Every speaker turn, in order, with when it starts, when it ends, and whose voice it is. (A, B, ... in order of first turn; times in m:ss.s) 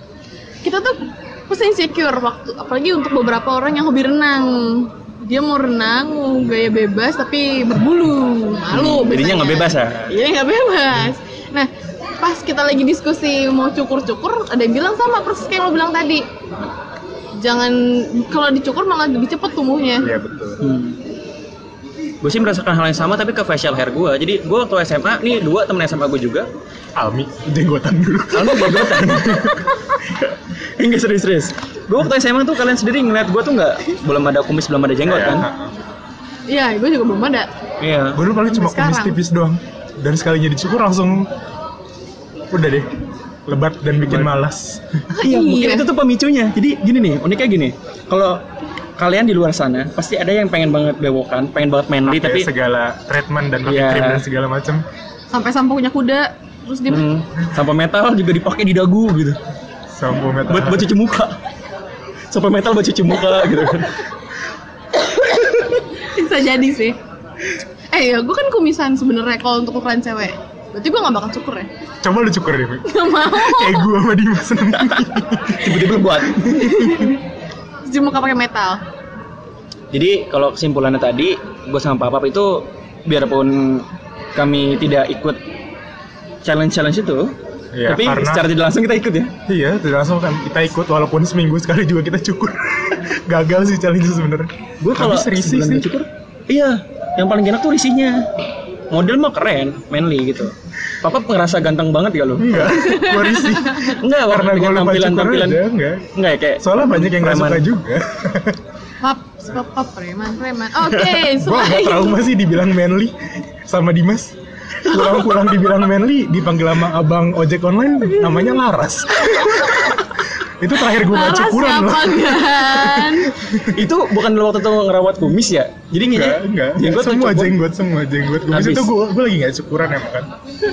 0:00.6-0:11.7 A
0:08.7-0:10.1 B
0:12.2-0:16.2 A
0:17.4-0:20.1 A
0:20.0-0:20.6 C
0:20.6-0:21.0 B
0:22.2-0:26.5 B
0:27.0-0:29.6 C
0:28.3-0:29.6 B
0:30.2-0:35.5 B
0:35.0-0:35.7 C
0:36.5-0:37.5 A
0:37.8-0:38.2 B
0:38.1-0:41.3 C
0:38.4-0:39.2 A
0:42.5-0:42.9 C
0:43.5-0:45.1 C
0:45.1-0:45.9 A
0:45.2-0:48.4 B
0:49.0-0:52.5 B
0:52.1-0:54.8 C
0:53.6-0:54.2 B
0:55.3-0:57.0 A
0:56.9-0:59.4 B
0:59.9-1:01.0 C
1:00.5-1:01.4 B
1:02.3-1:04.0 B
1:06.0-1:07.0 A
1:07.9-1:11.7 A
1:12.0-1:15.8 C
1:12.9-1:13.9 A
1:14.8-1:16.5 B
1:16.4-1:17.2 A
1:16.5-1:17.0 C
1:17.9-1:18.8 A
1:19.9-1:25.4 B
1:26.4-1:29.3 B
1:27.7-1:28.5 C
1:29.5-1:35.9 C
1:34.8-1:38.3 B
1:38.9-1:42.8 B
1:42.4-1:48.6 C
1:42.7-1:43.9 A
1:43.8-1:47.6 B
1:49.0-1:52.2 A
1:51.0-2:03.9 C
1:54.9-1:55.2 A
1:59.3-2:00.1 A
2:00.9-2:03.3 A
2:03.7-2:07.6 B
2:06.0-2:10.3 C
2:08.5-2:08.9 B